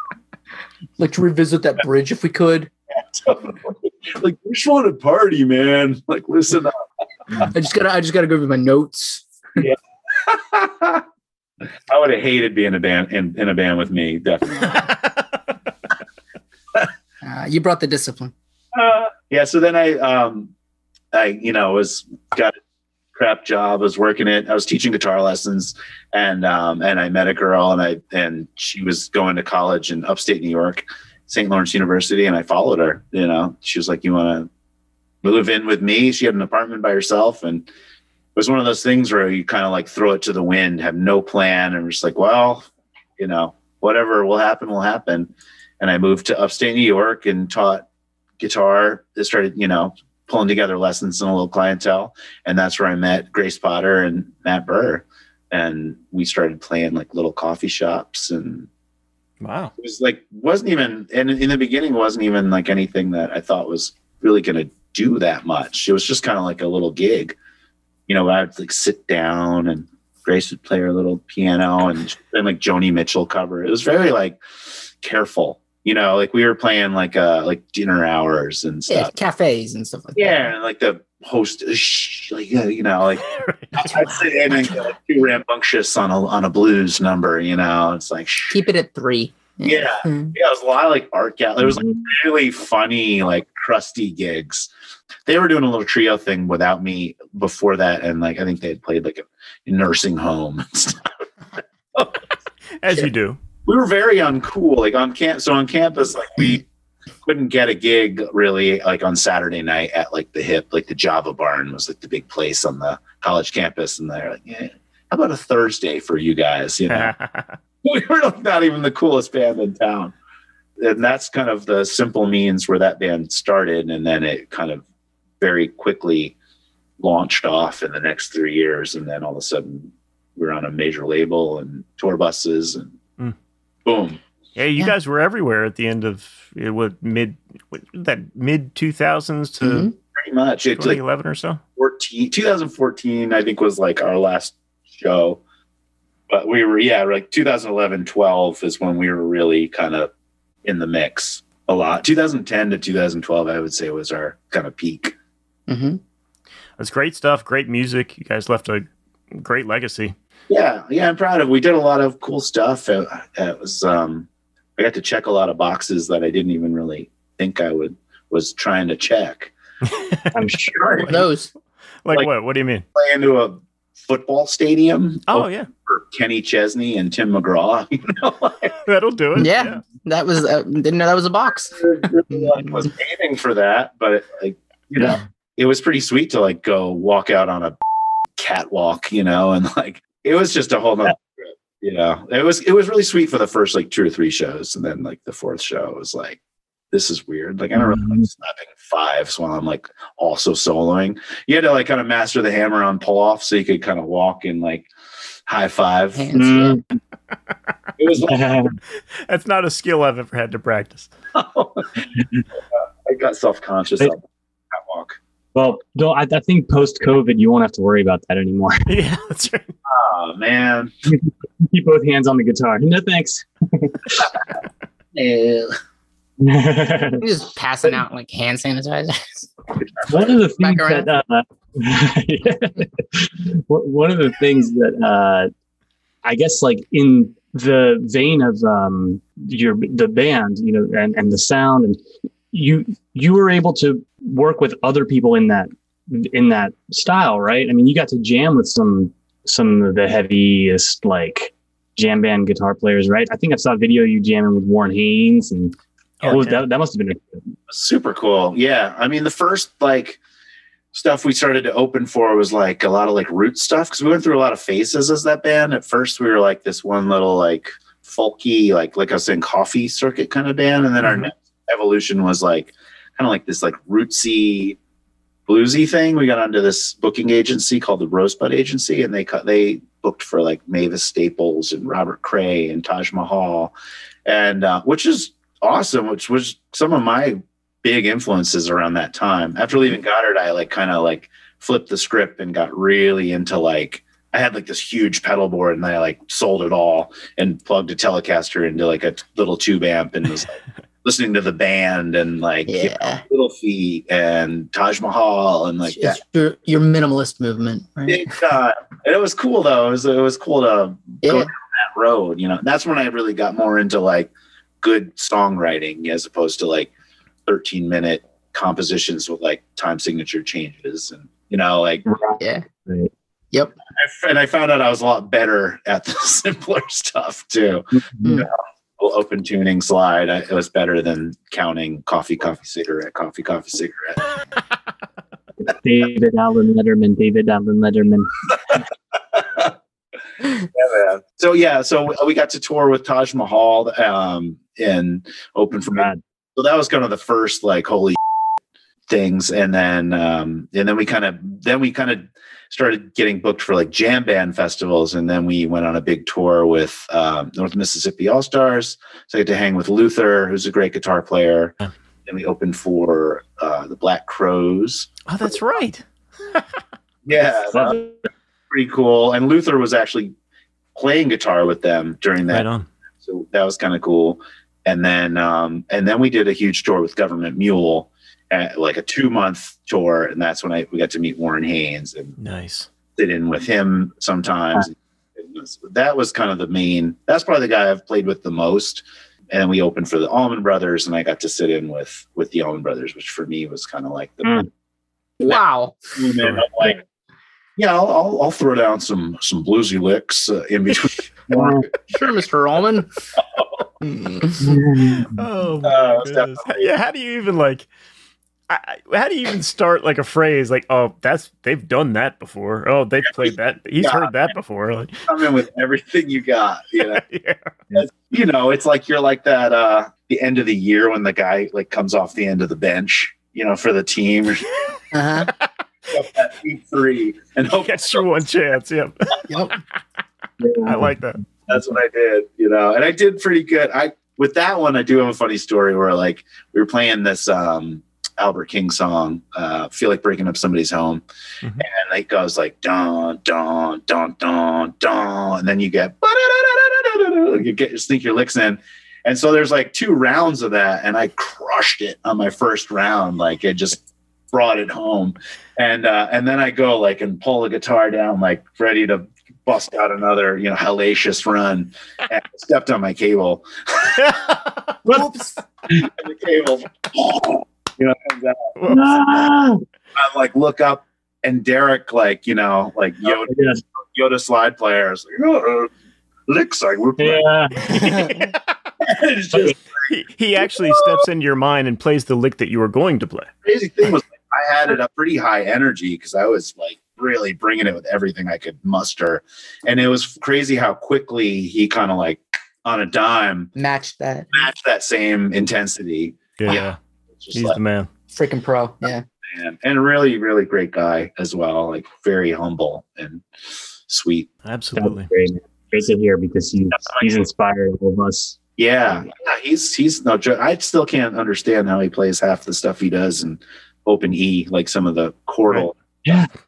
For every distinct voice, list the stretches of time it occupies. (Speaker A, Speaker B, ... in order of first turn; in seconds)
Speaker A: 1.0-2.7, 7.4-9.2, 17.2-18.3, 78.9-80.5, 83.8-84.9, 88.5-90.3, 139.6-139.9, 155.7-156.0, 171.1-171.5, 179.4-181.8, 182.3-182.9, 206.1-206.8, 227.2-229.5, 230.6-231.1, 302.7-303.2, 305.9-308.3, 311.2-311.5, 322.4-322.6, 395.4-396.1, 402.1-403.1, 404.0-404.7, 425.1-425.5, 429.5-429.8, 465.1-465.6, 478.0-478.5, 493.8-494.5, 498.3-499.2
Speaker B: 2.9-6.9, 9.6-11.1, 11.9-14.9, 18.7-20.5, 21.1-22.6, 23.1-34.5, 35.2-37.7, 38.4-47.9, 48.4-58.7, 59.8-67.4, 68.1-74.4, 75.0-79.1, 80.2-88.6, 89.6-94.7, 95.3-101.1, 101.9-102.2, 103.7-106.7, 107.2-117.1, 117.8-120.2, 120.8-124.8, 125.4-126.3, 127.0-132.9, 133.8-134.2, 140.2-141.0, 141.8-145.4, 146.3-150.1, 150.6-155.2, 160.5-169.5, 170.8-171.2, 172.9-178.8, 181.8-187.8, 188.4-196.4, 196.9-204.9, 205.5-206.3, 208.0-208.7, 211.3-215.2, 219.9-220.9, 225.1-225.8, 229.8-230.3, 257.7-260.2, 260.9-274.8, 275.5-283.7, 284.3-306.2, 308.1-316.9, 317.5-322.0, 324.0-334.2, 339.3-339.8, 340.6-348.2, 349.1-361.8, 362.3-365.1, 367.3-368.0, 368.7-370.3, 370.9-372.7, 373.2-382.4, 383.2-394.7, 396.2-397.0, 397.8-401.8, 403.4-403.9, 405.8-406.9, 413.3-414.4, 415.3-417.2, 417.9-424.7, 426.1-428.2, 431.7-441.2, 441.8-465.3, 465.9-468.7, 470.1-475.9, 476.5-477.5, 479.0-479.8, 480.6-481.2, 483.6-493.7, 494.5-496.8, 497.4-497.8, 499.5-503.4, 504.1-504.5, 507.0-507.3, 508.8-516.5
Speaker C: 14.7-15.3, 59.4-59.7, 83.3-83.8, 102.8-103.4, 116.9-117.6, 134.6-139.9, 140.8-141.6, 156.8-160.2, 169.9-170.3, 172.0-172.8, 175.3-175.7, 178.8-179.8, 209.3-211.1, 218.9-219.7, 256.2-256.6, 271.0-271.3, 365.3-366.7, 372.5-372.9, 382.4-382.9, 405.2-407.9, 408.7-415.3, 417.1-417.9, 427.8-429.5, 430.9-431.4, 464.2-464.7, 468.8-469.3, 477.9-478.8, 480.1-483.5, 496.6-497.0, 497.5-498.1, 504.6-505.3
Speaker D: 91.6-92.1, 170.3-171.1, 197.8-198.2, 206.3-206.8, 208.3-208.8, 215.6-218.8, 221.1-224.3, 226.4-227.2, 230.1-235.5, 236.2-242.0, 242.5-257.4, 322.1-323.1, 328.0-328.4, 335.6-338.5, 345.9-346.2, 367.7-368.1, 401.5-401.9, 404.6-405.3, 430.6-431.1, 468.9-469.8, 473.3-473.8, 477.2-478.0, 505.0-508.6